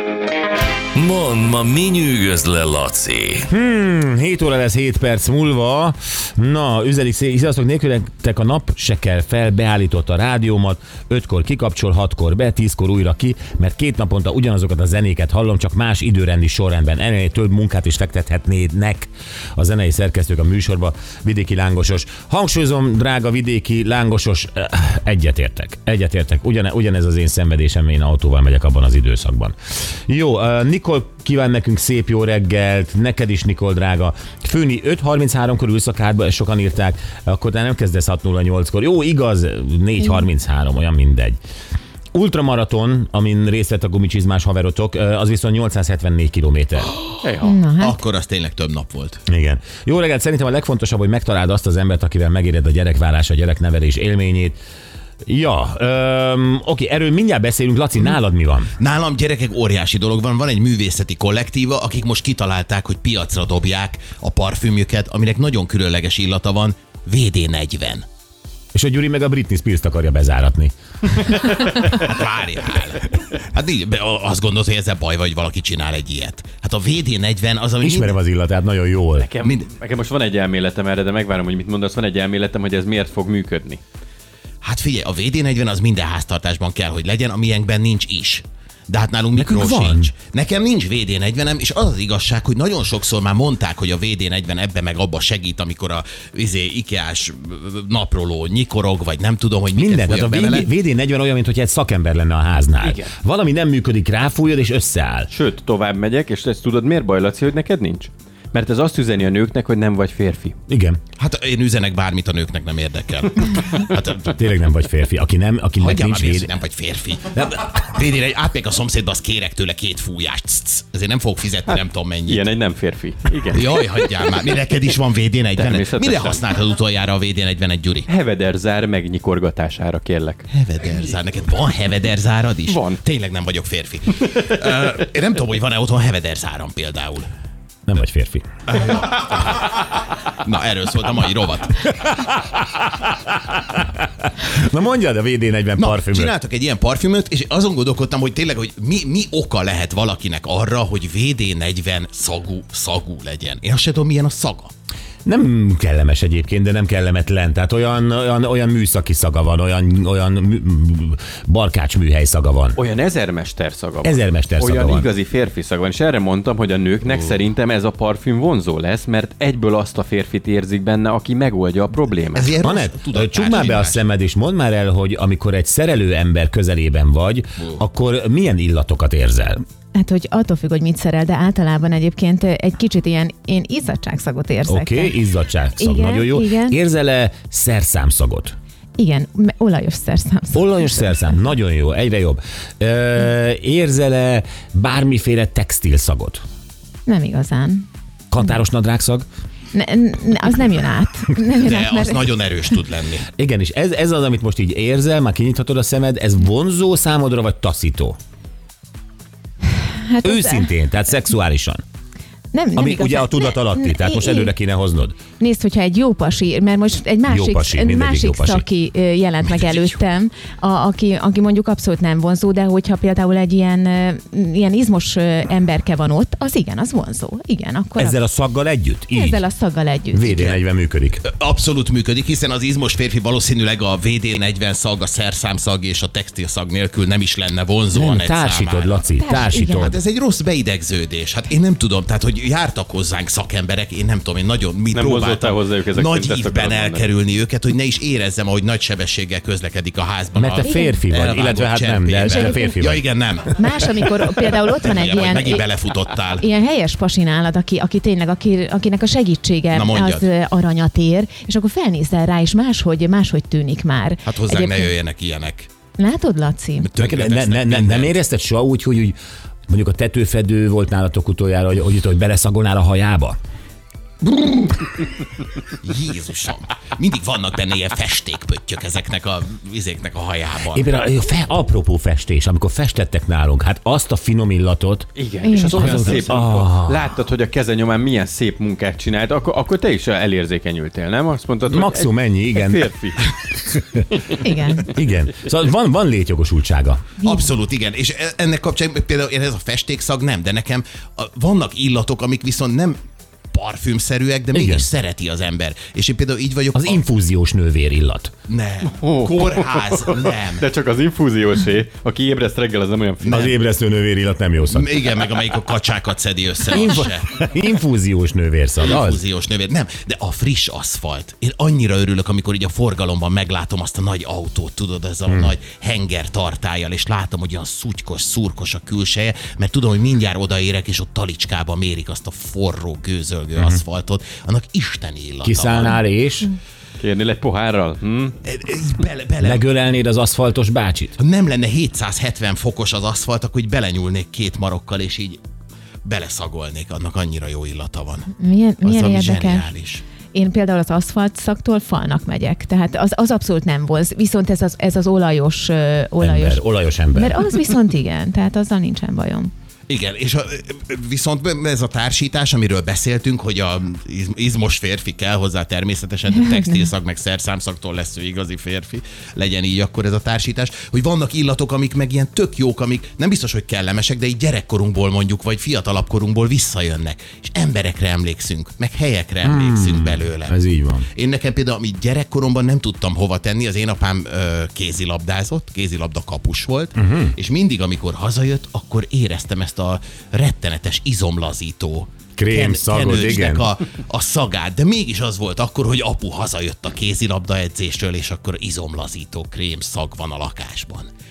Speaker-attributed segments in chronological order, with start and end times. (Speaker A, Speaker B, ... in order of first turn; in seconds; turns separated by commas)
Speaker A: 0.9-3.5, Speaker B: 3.5-41.4, Speaker B: 42.1-46.9, Speaker C: 47.2-47.6, Speaker D: 47.4-48.0, Speaker E: 47.8-49.2, Speaker B: 49.3-54.5, Speaker B: 55.2-58.7, Speaker E: 58.8-68.0, Speaker B: 68.7-71.2, Speaker E: 71.9-78.1, Speaker B: 77.8-79.3, Speaker C: 79.2-83.8, Speaker E: 79.4-79.7, Speaker E: 84.6-100.7, Speaker B: 89.3-90.1, Speaker B: 99.8-105.3, Speaker C: 102.8-103.1, Speaker C: 105.3-110.5, Speaker B: 110.7-111.0, Speaker E: 111.2-114.4, Speaker B: 114.3-116.5, Speaker E: 115.8-122.5, Speaker B: 117.3-117.6, Speaker C: 121.7-124.1, Speaker E: 123.5-128.1, Speaker C: 125.6-126.4, Speaker C: 128.1-130.4, Speaker E: 130.5-137.3, Speaker C: 132.7-133.0, Speaker B: 137.9-138.4, Speaker E: 138.7-139.8, Speaker E: 140.4-141.9, Speaker B: 142.0-146.3, Speaker E: 145.8-154.7, Speaker B: 155.2-162.8, Speaker C: 162.8-172.6, Speaker B: 164.0-165.1, Speaker E: 172.3-174.1, Speaker B: 172.6-179.6, Speaker D: 179.9-185.1, Speaker B: 184.7-188.5, Speaker D: 185.8-186.8, Speaker D: 189.0-191.2, Speaker B: 190.5-196.4, Speaker D: 197.1-197.9, Speaker B: 198.3-199.2, Speaker D: 199.7-202.3, Speaker E: 201.6-203.3, Speaker B: 203.3-208.2, Speaker D: 210.1-210.7, Speaker B: 210.2-211.8, Speaker D: 212.5-214.5, Speaker B: 212.8-215.2, Speaker D: 215.4-228.2, Speaker B: 217.3-218.6, Speaker B: 228.0-229.4, Speaker D: 229.1-230.5, Speaker B: 230.1-231.2, Speaker E: 230.3-230.6, Speaker E: 231.2-253.7, Speaker B: 237.9-239.9, Speaker D: 239.2-239.9, Speaker C: 244.9-247.1, Speaker B: 250.3-253.0, Speaker D: 250.6-251.0, Speaker D: 252.3-252.7, Speaker D: 253.5-255.7, Speaker E: 254.2-256.4, Speaker D: 256.4-264.9, Speaker E: 259.7-260.3, Speaker E: 264.2-265.7, Speaker D: 266.0-266.9, Speaker E: 266.8-268.1, Speaker B: 267.0-269.2, Speaker B: 269.7-273.4, Speaker E: 275.8-280.9, Speaker B: 280.7-285.1, Speaker C: 285.1-293.4, Speaker D: 285.4-286.2, Speaker B: 285.6-287.0, Speaker E: 285.9-286.3, Speaker B: 291.6-292.9, Speaker B: 293.6-294.1, Speaker D: 294.3-294.9, Speaker B: 294.8-297.1, Speaker D: 297.2-297.5, Speaker E: 297.2-303.0, Speaker E: 303.5-307.0, Speaker B: 304.5-304.9, Speaker B: 306.7-308.3, Speaker E: 308.5-310.7, Speaker C: 309.0-313.4, Speaker E: 313.2-313.6, Speaker B: 313.2-314.9, Speaker E: 314.7-317.3, Speaker B: 316.7-319.2, Speaker E: 318.8-336.0, Speaker B: 335.4-336.5, Speaker C: 337.0-338.3, Speaker E: 338.4-339.6, Speaker B: 339.4-341.1, Speaker E: 341.2-345.4, Speaker E: 346.0-350.0, Speaker D: 348.4-349.7, Speaker D: 350.3-359.5, Speaker B: 356.2-357.5, Speaker E: 359.9-380.6, Speaker B: 379.4-381.1, Speaker E: 381.1-401.1, Speaker B: 386.9-387.3, Speaker B: 392.4-393.6